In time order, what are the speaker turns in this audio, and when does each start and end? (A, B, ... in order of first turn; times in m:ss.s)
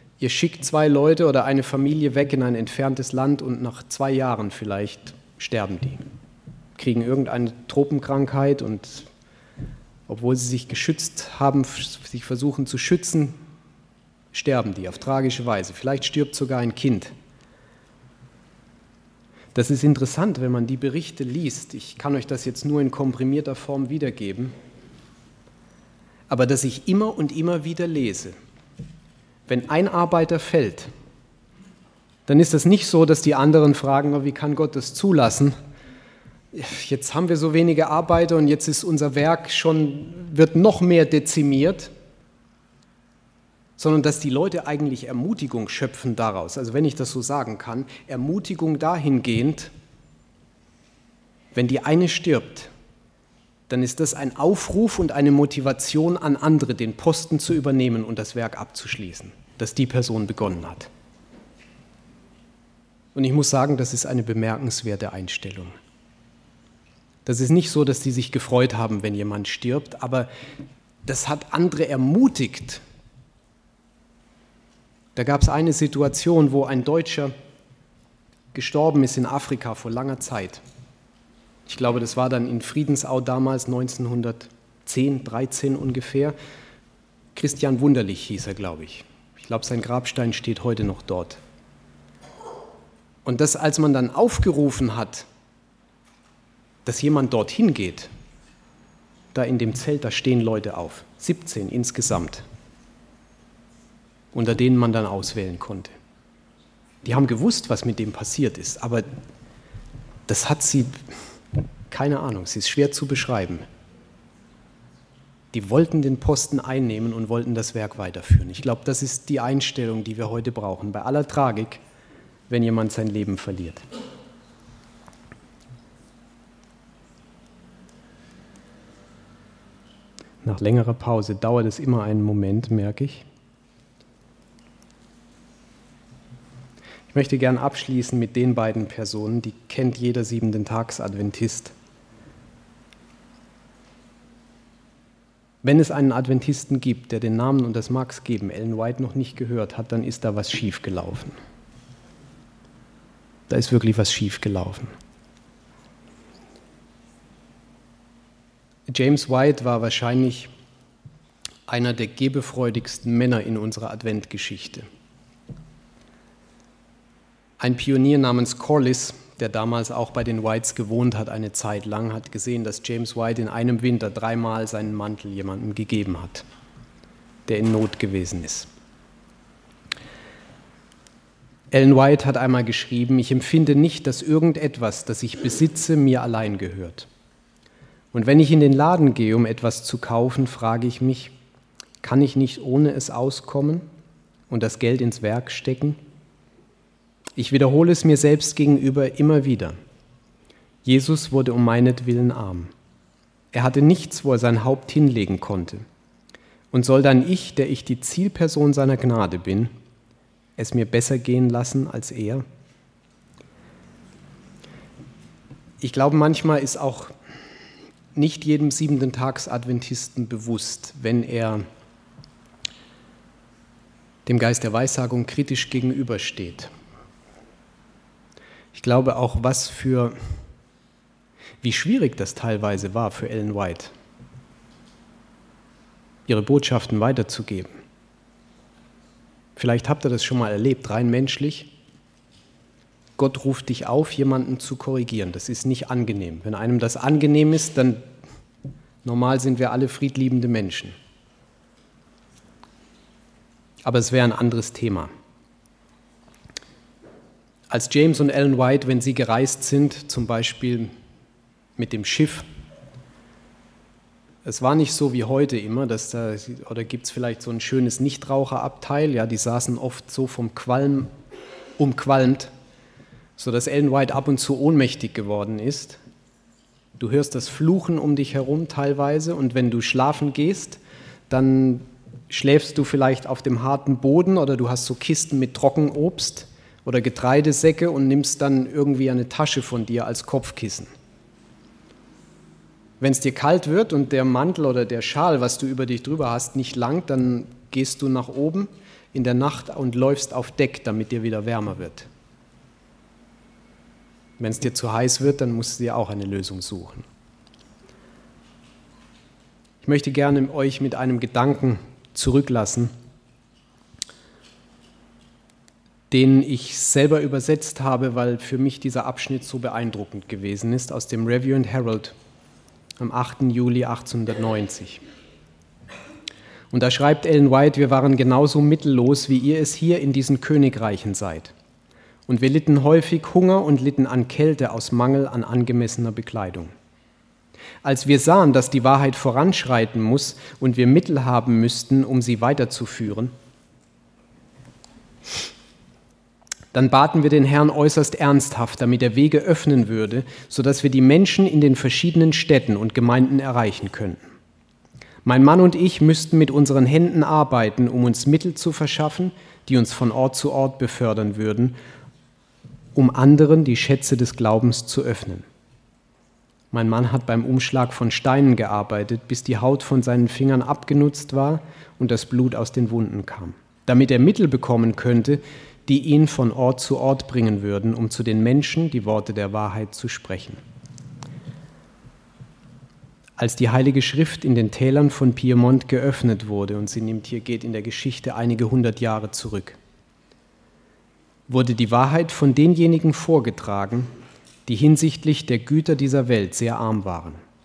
0:00.2-0:06.0 A
0:06.8-0:09.1 A
0:10.1-0:13.4 A
0:14.3-0:17.1 A
0:19.6-0:24.5 A
0:26.3-0:28.4 A
0:29.5-0:30.9 A
0:32.3-0:35.6 A
0:36.5-0:41.9 A
0:43.8-0:49.7 A
0:51.6-0:52.7 A
0:53.7-1:00.9 A
1:03.2-1:05.8 A
1:07.2-1:10.3 A
1:11.0-1:12.8 A
1:15.2-1:17.3 A
1:18.5-1:20.6 A
1:21.7-1:26.4 A
1:27.4-1:31.4 A
1:33.2-1:35.3 A
1:36.8-1:38.1 A
1:39.3-1:42.4 A
1:44.3-1:46.0 A
1:47.0-1:49.1 A
1:50.3-1:51.0 A
1:51.9-1:53.6 A
1:55.5-2:01.8 A
2:02.5-2:03.8 A
2:10.4-2:13.2 A
2:17.1-2:21.7 A
2:25.6-2:31.4 A
2:33.5-2:34.9 A
2:38.9-2:40.5 A
2:41.7-2:44.8 A
2:47.6-2:56.4 A
2:57.5-2:58.7 A
3:01.7-3:07.1 A
3:08.1-3:11.3 A
3:12.0-3:13.8 A
3:14.5-3:16.0 A
3:17.4-3:19.8 A
3:20.8-3:22.7 A
3:23.5-3:25.8 A
3:26.7-3:29.7 A
3:30.6-3:32.4 A
3:35.8-3:37.1 A
3:38.2-3:41.6 A
3:44.3-3:46.7 A
3:48.7-3:50.2 A
3:51.6-3:53.9 A
3:56.3-3:57.7 A
3:59.6-4:01.7 A
4:03.2-4:08.0 A
4:09.0-4:11.0 A
4:13.8-4:15.1 A
4:17.7-4:20.9 A
4:21.8-4:22.5 A
4:24.4-4:31.1 A
4:31.8-4:32.5 A
4:33.4-4:36.0 A
4:37.0-4:50.9 A
4:53.0-5:02.1 A
5:04.4-5:07.0 A
5:09.8-5:12.9 A
5:16.1-5:22.2 A
5:23.0-5:25.0 A
5:26.7-5:31.5 A
5:32.3-5:36.7 A
5:37.8-5:43.3 A
5:46.7-5:54.2 A
5:55.2-6:01.8 A
6:03.0-6:05.5 A
6:06.7-6:20.6 A
6:23.4-6:29.8 A
6:31.5-6:34.1 A
6:34.7-6:37.4 A